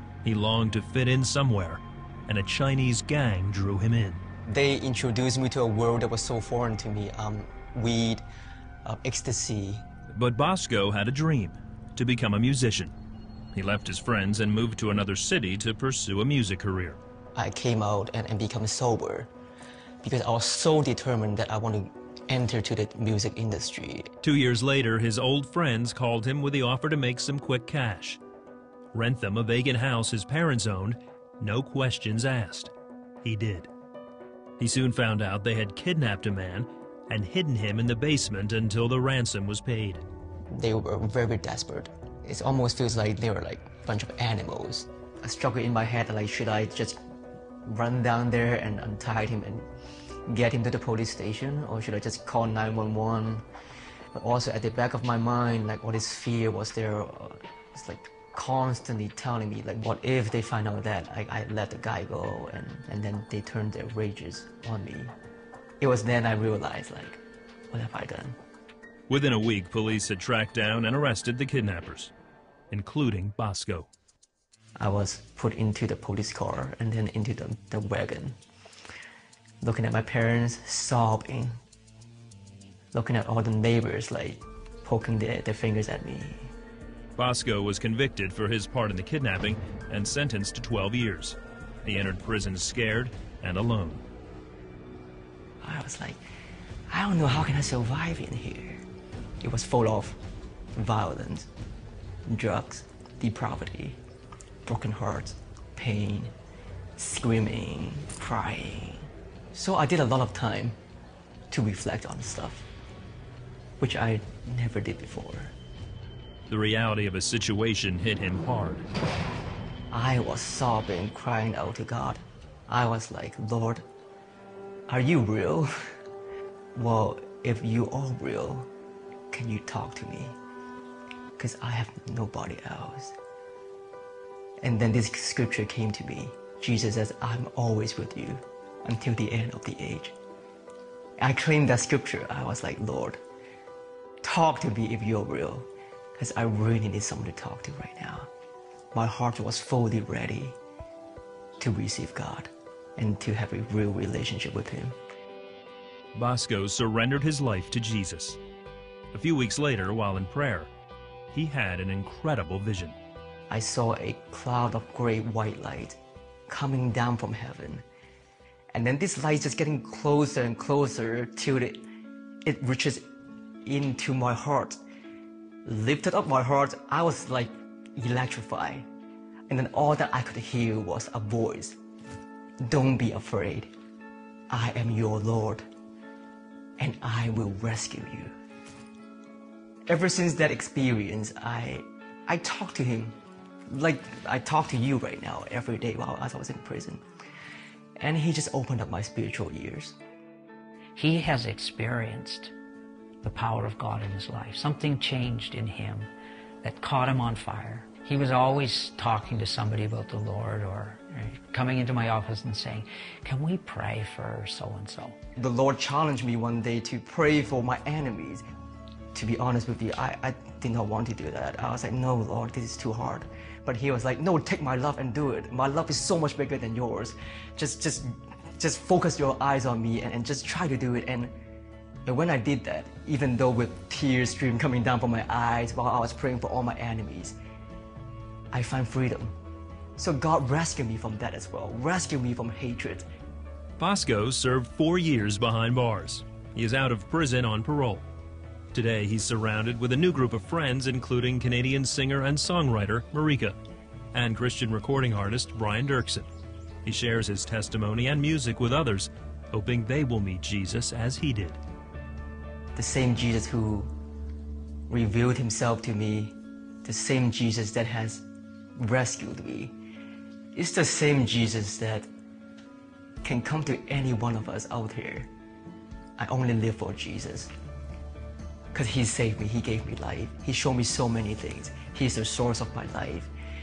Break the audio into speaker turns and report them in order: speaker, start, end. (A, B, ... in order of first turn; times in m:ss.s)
0:00.2-0:04.2 A
0:04.5-0:08.2 B
0:08.8-0:09.9 B
0:10.1-0:12.9 A
0:13.5-0:17.0 A
0:17.4-0:19.3 B
0:20.0-0:24.1 B
0:24.2-0:28.2 A
0:28.9-0:32.7 A
0:33.2-0:33.7 A
0:34.6-0:40.0 A
0:40.5-0:47.0 B
0:47.6-0:49.7 B
0:50.3-0:53.4 B
0:54.1-1:05.1 B
1:05.8-1:08.4 B
1:09.1-1:12.1 A
1:12.7-1:13.9 A
1:14.8-1:18.4 B
1:19.6-1:21.6 B
1:22.9-1:26.5 B
1:27.2-1:34.0 A
1:35.6-1:36.2 B
1:36.9-1:38.8 B
1:39.4-1:40.2 B
1:40.8-1:41.5 B
1:42.3-1:44.0 B
1:44.7-1:46.3 B
1:47.0-1:50.8 B
1:51.5-1:52.7 B
1:53.8-1:55.6 B
1:56.5-1:58.9 A
1:59.9-2:03.8 B
2:04.9-2:05.7 B
2:06.8-2:08.7 B
2:09.3-2:10.4 B
2:11.4-2:13.2 B
2:14.6-2:20.2 B
2:21.2-2:23.2 B
2:24.2-2:28.3 B
2:28.9-2:30.6 B
2:31.6-2:35.0 B
2:36.1-2:38.4 A
2:39.1-2:40.7 A
2:41.3-2:43.0 A
2:43.5-2:47.8 B
2:48.7-2:51.9 B
2:52.4-2:53.0 B
2:53.6-2:54.8 B
2:55.6-2:58.9 B
2:59.5-3:01.8 B
3:02.6-3:03.7 B
3:04.5-3:05.6 B
3:06.8-3:08.3 B
3:09.9-3:17.0 B
3:18.0-3:20.0 B
3:21.0-3:22.5 C
3:23.2-3:26.1 C
3:26.6-3:35.2 C
3:35.4-3:38.4 B
3:39.1-3:51.4 B
3:52.1-3:57.4 B
3:58.5-3:59.4 B
4:00.0-4:03.1 B
4:03.8-4:08.1 A
4:08.7-4:13.6 A
4:14.1-4:16.3 A
4:16.8-4:21.6 A
4:22.8-4:23.9 B
4:24.9-4:28.2 B
4:28.8-4:29.8 B
4:30.5-4:32.1 B
4:33.2-4:35.3 B
4:36.2-4:37.5 B
4:38.7-4:43.3 B